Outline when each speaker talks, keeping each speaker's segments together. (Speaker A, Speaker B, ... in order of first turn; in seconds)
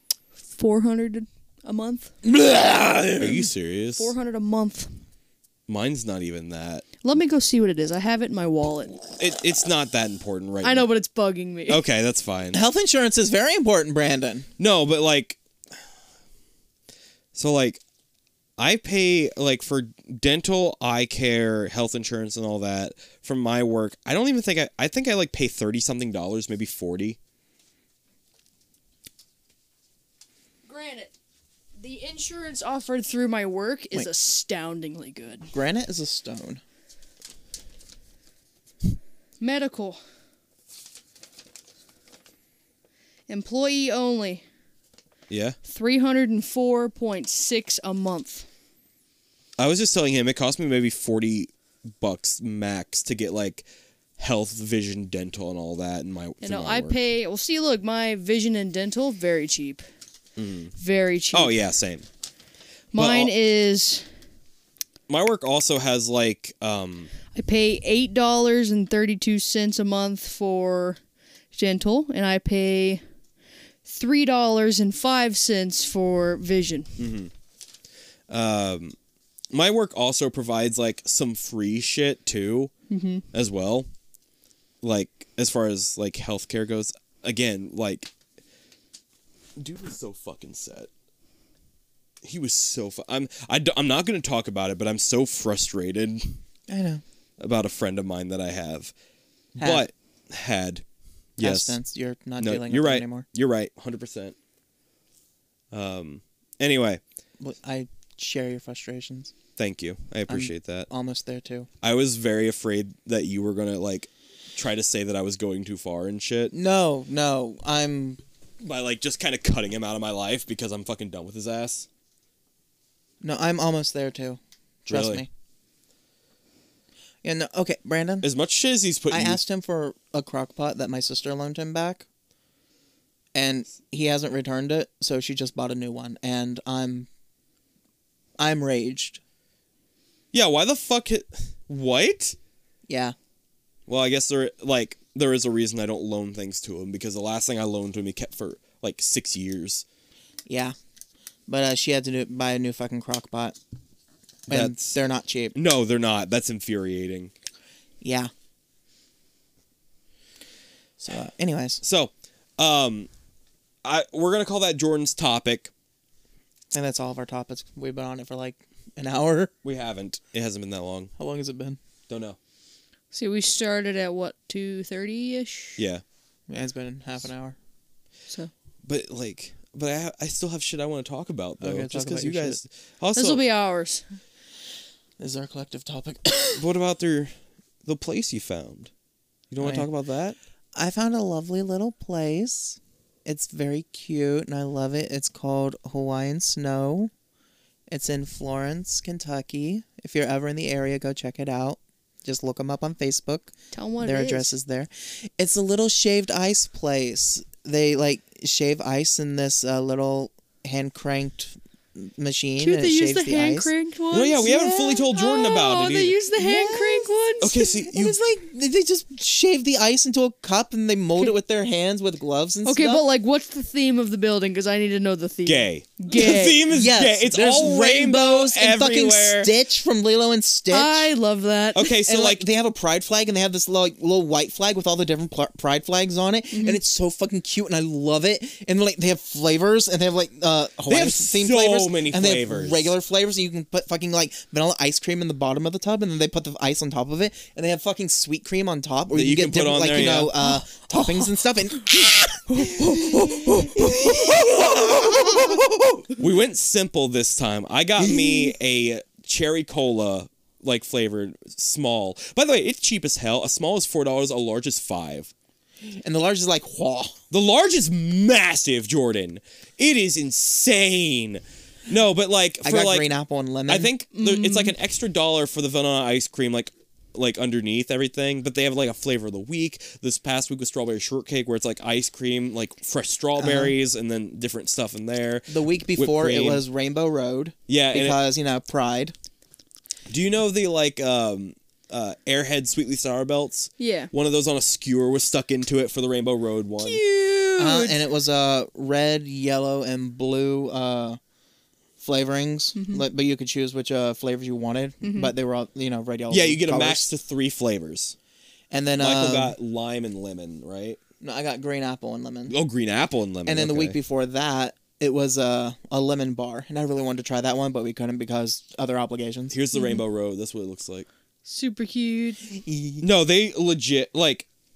Speaker A: 0.5-2.1, 4.0-4.9, 7.0-9.0, 10.6-11.8, 30.7-31.1, 31.8-35.5, 39.4-40.0, 43.3-44.4, 45.6-48.5, 56.4-59.8, 60.8-61.5, 62.9-64.0, 67.3-71.0, 71.5-73.0, 73.9-77.0, 82.9-83.2, 173.1-175.8, 183.1-184.0, 203.7-204.5, 212.6-217.6, 222.6-226.6, 230.7-231.9, 236.5-236.8, 250.9-251.3, 252.6-253.7, 274.1-274.7, 293.8-294.1, 296.8-298.0, 302.7-303.0, 305.0-305.3, 319.7-320.0, 321.4-322.5
Speaker B: 2.2-3.5, 12.5-14.5, 35.5-36.6, 96.7-97.0, 99.6-99.9, 101.4-103.3, 107.4-109.3, 110.3-111.7, 116.5-118.2, 123.2-125.3, 127.2-128.3, 129.1-132.1, 133.3-137.1, 138.4-139.2, 142.9-143.2, 150.5-150.8, 151.5-153.6, 154.5-155.6, 158.0-158.3, 161.0-161.8, 166.7-169.5, 171.2-171.8, 176.5-177.6, 181.6-182.6, 185.2-186.6, 189.6-189.9, 190.7-197.1, 197.9-213.7, 216.4-217.1, 217.6-223.0, 226.7-231.1, 232.1-256.2, 258.1-258.4, 265.9-267.2, 272.6-273.9, 283.4-283.7, 285.5-289.1, 297.6-301.2, 302.0-307.1, 308.7-309.6, 311.2-312.6, 313.4-319.6, 322.5-323.1
Speaker C: 3.1-4.1, 5.7-6.8, 9.2-10.9, 11.7-12.6, 14.6-15.4, 17.4-17.8, 18.6-27.2, 45.3-45.6, 49.6-53.7, 54.2-57.0, 60.4-60.7, 61.3-62.0, 63.0-63.3, 65.1-67.1, 77.0-77.3, 78.3-79.0, 79.5-82.7, 83.3-83.9, 84.8-88.1, 89.6-90.9, 92.2-96.4, 97.4-98.9, 99.5-100.8, 101.4-101.8, 102.4-104.3, 105.7-107.0, 109.6-110.9, 111.8-116.5, 118.6-121.9, 124.9-125.2, 128.2-129.4, 140.3-142.4, 143.9-149.8, 154.5-154.9, 155.6-157.3, 161.8-163.1, 163.8-165.7, 169.6-171.1, 172.1-172.4, 175.8-176.0, 178.8-183.4, 186.6-187.3, 187.8-188.9, 189.5-190.4, 214.1-216.2, 217.4-218.2, 225.4-229.5, 231.7-232.4, 240.9-242.9, 249.1-250.3, 252.6-255.4, 256.2-265.3, 267.3-273.1, 273.7-286.6, 287.7-288.2, 290.1-297.0, 306.3-308.1, 309.0-311.0, 312.5-314.0, 319.5-321.1, 323.0-324.5